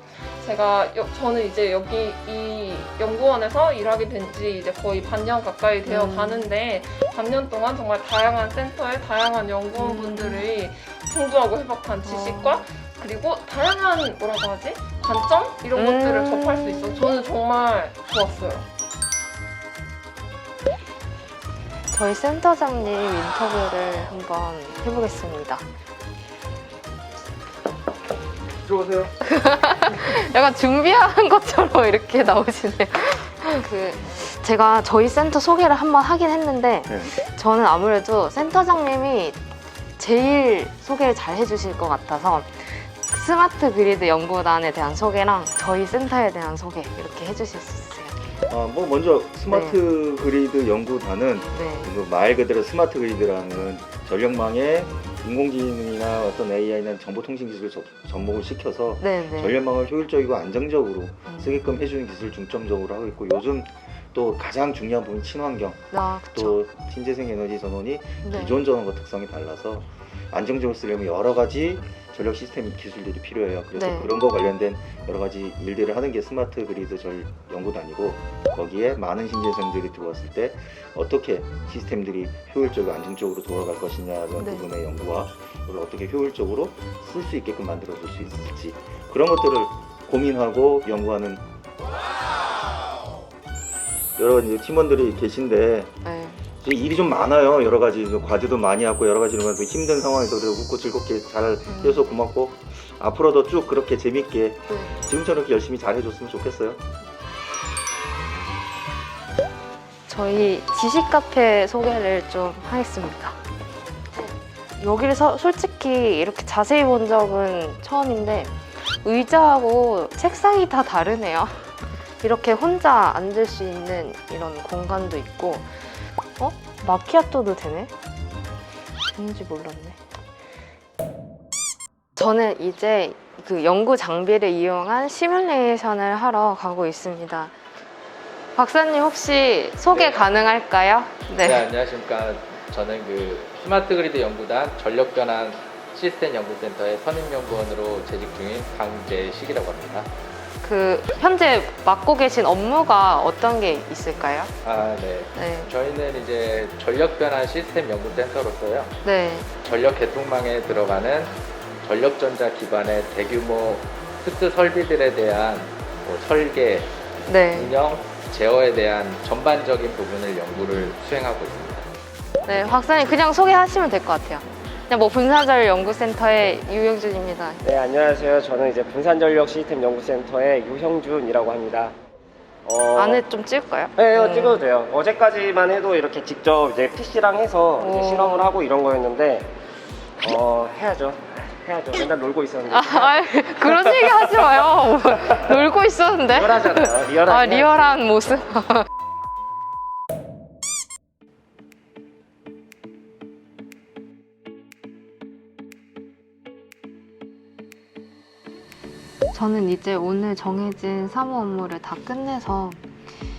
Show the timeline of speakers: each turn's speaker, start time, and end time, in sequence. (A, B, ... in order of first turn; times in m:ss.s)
0:00.4-0:18.6 A
0:05.8-0:06.5 B
0:09.8-0:10.4 B
0:12.0-0:12.6 B
0:15.7-0:17.0 B
0:21.9-0:25.6 B
0:29.2-0:39.4 B
0:40.0-0:48.3 B
0:48.5-1:31.4 C
0:49.5-0:49.8 B
0:51.5-0:51.9 B
0:59.0-0:59.6 B
1:01.3-1:01.6 B
1:05.9-1:06.6 B
1:08.2-1:08.6 B
1:13.8-1:14.1 B
1:24.4-1:24.6 B
1:34.2-1:35.9 C
1:36.0-1:36.4 B
1:36.6-1:46.8 C
1:41.7-1:42.0 B
1:44.7-1:44.9 B
1:50.1-1:53.4 B
1:54.2-2:07.9 B
2:09.1-2:10.0 B
2:12.2-2:17.5 B
2:18.6-2:21.6 B
2:19.9-2:20.2 D
2:21.3-2:30.1 D
2:30.6-2:34.5 B
2:34.6-2:38.9 D
2:35.3-2:35.7 B
2:39.0-2:39.5 B
2:39.6-2:46.9 D
2:47.3-2:47.7 B
2:47.5-2:51.9 D
2:50.5-2:50.9 B
2:52.4-2:57.6 B
2:57.6-3:01.9 E
3:02.6-3:03.2 E
3:02.9-3:04.6 B
3:04.0-3:09.5 E
3:07.8-3:08.5 B
3:10.2-3:14.6 E
3:12.7-3:18.9 B
3:16.2-3:18.2 E
3:29.3-3:32.8 B